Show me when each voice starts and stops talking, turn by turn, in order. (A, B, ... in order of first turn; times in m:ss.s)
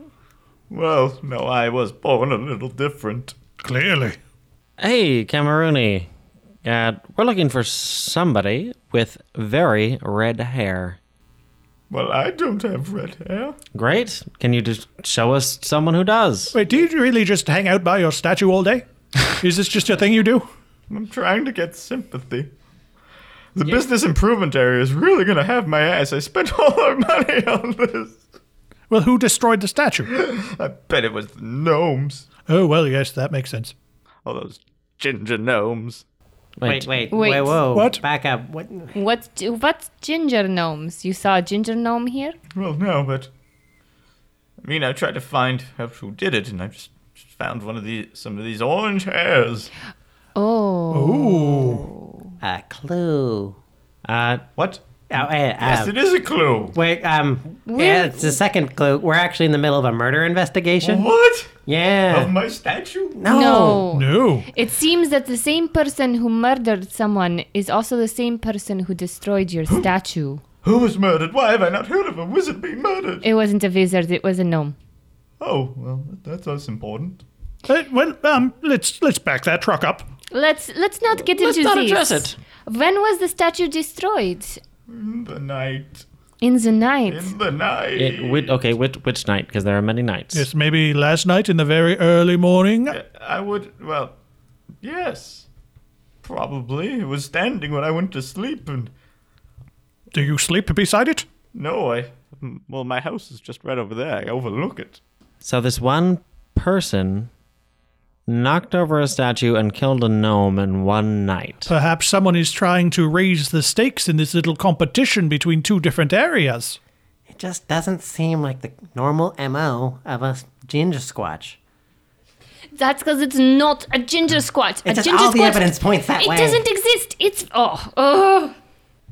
0:00.7-0:03.3 A
0:03.6-0:04.2 B
0:04.8-0:06.1 C
0:06.6-0:11.0 C
0:11.9-0:13.6 A
0:13.7-0:16.6 C
0:16.5-0:20.5 B
0:20.9-0:22.5 A
0:23.6-0:28.2 A
0:28.9-0:30.1 B
0:30.1-0:32.3 A
0:32.4-0:33.7 B
0:34.2-0:36.0 A
0:36.6-0:37.1 C
0:36.6-0:38.9 D
0:37.1-0:37.6 E
0:37.7-0:38.0 B
0:38.9-0:42.4 E
0:42.5-0:43.3 A
0:44.6-0:49.7 A
0:50.3-0:52.3 E
0:50.9-0:51.9 B
0:52.4-0:53.6 D
0:54.0-0:54.4 C
0:54.6-0:54.8 A
0:55.1-0:55.9 D
0:55.6-0:56.8 A
0:56.7-1:01.1 D
0:57.6-0:58.4 E
1:00.8-1:01.5 A
1:01.6-1:02.3 D
1:02.1-1:03.2 A
1:03.1-1:03.8 D
1:03.3-1:10.4 E
1:03.9-1:04.5 B
1:10.6-1:13.2 A
1:13.2-1:14.7 E
1:15.4-1:17.2 A
1:17.7-1:20.1 B
1:20.3-1:24.6 E
1:21.2-1:22.4 C
1:24.9-1:26.0 A
1:26.4-1:27.3 E
1:27.1-1:28.6 A
1:28.0-1:30.5 C
1:30.3-1:33.0 B
1:32.9-1:34.2 A
1:34.8-1:35.5 A
1:36.2-1:38.9 A
1:40.1-1:41.2 B
1:41.5-1:45.0 A
1:45.4-1:47.3 C
1:48.3-1:51.7 C
1:51.7-1:56.8 B
1:57.3-2:01.6 D
2:02.7-2:08.6 E
2:04.8-2:06.6 D